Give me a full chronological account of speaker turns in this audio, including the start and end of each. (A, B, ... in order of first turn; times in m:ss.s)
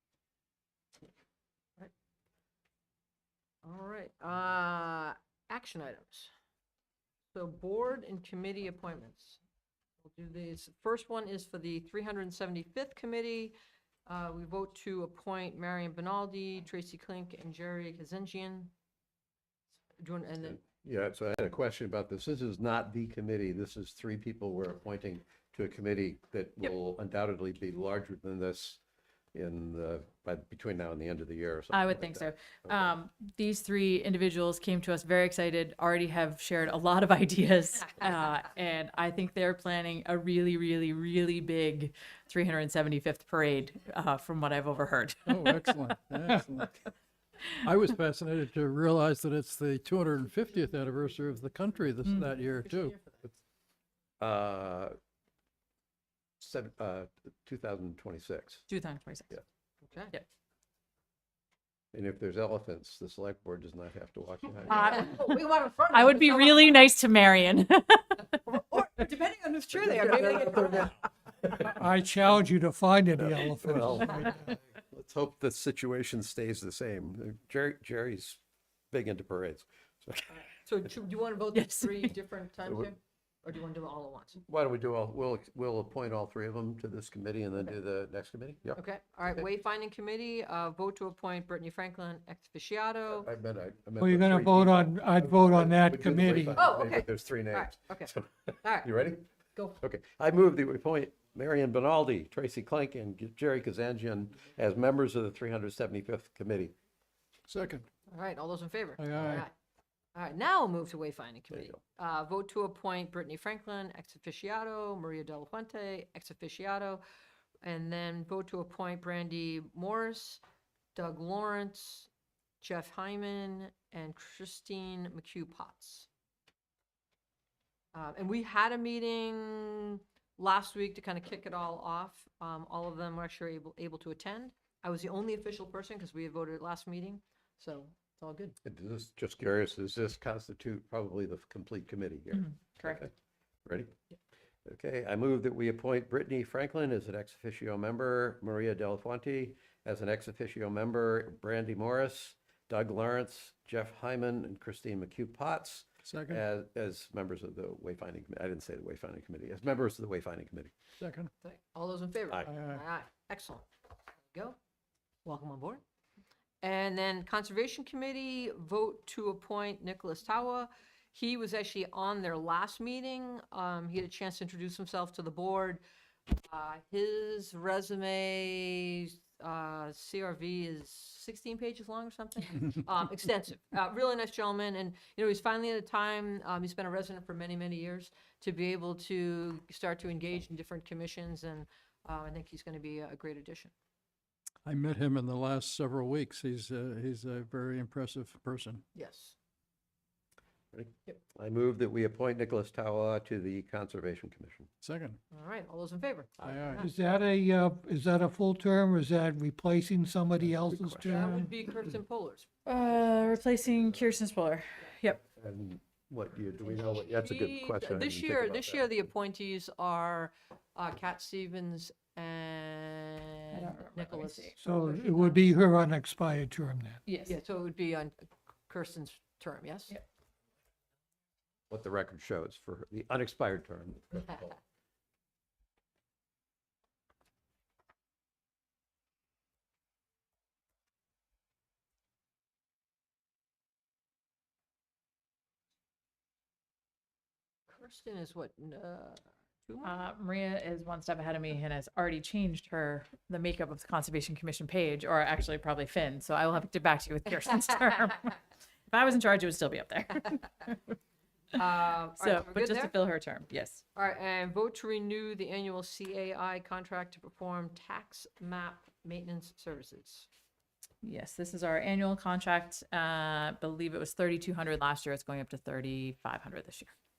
0:03.6-0:06.3 A
0:07.3-0:09.4 A
0:10.0-0:18.7 A
0:20.0-0:20.6 A
0:20.4-0:28.8 B
0:29.3-0:32.9 B
0:31.7-0:45.8 C
0:45.3-0:46.9 D
0:47.6-0:53.0 D
0:52.0-0:52.3 C
0:54.2-0:55.0 B
0:56.4-0:58.6 B
0:58.7-0:59.4 C
0:59.9-1:00.1 A
1:01.9-1:05.2 B
1:04.7-1:06.9 A
1:04.7-1:05.3 C
1:05.9-1:08.4 C
1:08.4-1:11.0 A
1:09.7-1:10.9 B
1:11.6-1:14.5 E
1:13.2-1:18.4 B
1:18.9-1:20.4 B
1:20.6-1:24.4 A
1:21.5-1:22.1 C
1:24.4-1:28.8 B
1:28.8-1:33.3 A
1:33.1-1:46.8 B
1:34.0-1:36.7 E
1:36.6-1:38.9 A
1:47.5-1:47.9 D
1:48.1-1:49.5 A
1:49.0-1:49.5 D
1:50.2-1:57.0 A
1:51.5-1:51.8 B
1:57.6-2:00.4 A
2:01.0-2:02.1 A
2:02.6-2:06.1 A
2:07.9-2:18.6 A
2:18.6-2:23.1 B
2:22.3-2:23.1 C
2:23.7-2:23.9 B
2:24.7-2:40.7 B
2:36.0-2:36.4 D
2:41.0-2:41.3 D
2:41.4-2:43.6 A
2:42.4-2:42.8 D
2:45.2-2:45.8 A
2:46.6-2:55.8 A
2:56.5-3:13.7 A
3:14.6-3:18.8 D
3:19.0-3:19.4 A
3:20.7-3:24.7 B
3:24.8-3:25.2 D
3:25.3-3:26.9 A
3:26.4-3:26.9 D
3:26.8-3:31.4 E
3:30.4-3:31.3 B
3:31.1-3:32.5 A
3:32.7-3:35.2 C
3:35.4-3:39.0 B
3:36.7-3:45.5 A
3:43.5-3:44.5 C
3:44.6-3:47.0 E
3:47.0-3:47.4 C
3:47.2-3:49.9 A
3:51.7-3:54.6 B
4:07.7-4:09.9 A
4:09.8-4:18.4 C
4:18.9-4:20.7 C
4:21.6-4:23.0 A
4:22.2-4:23.8 C
4:24.0-4:30.3 A
4:31.0-4:36.9 C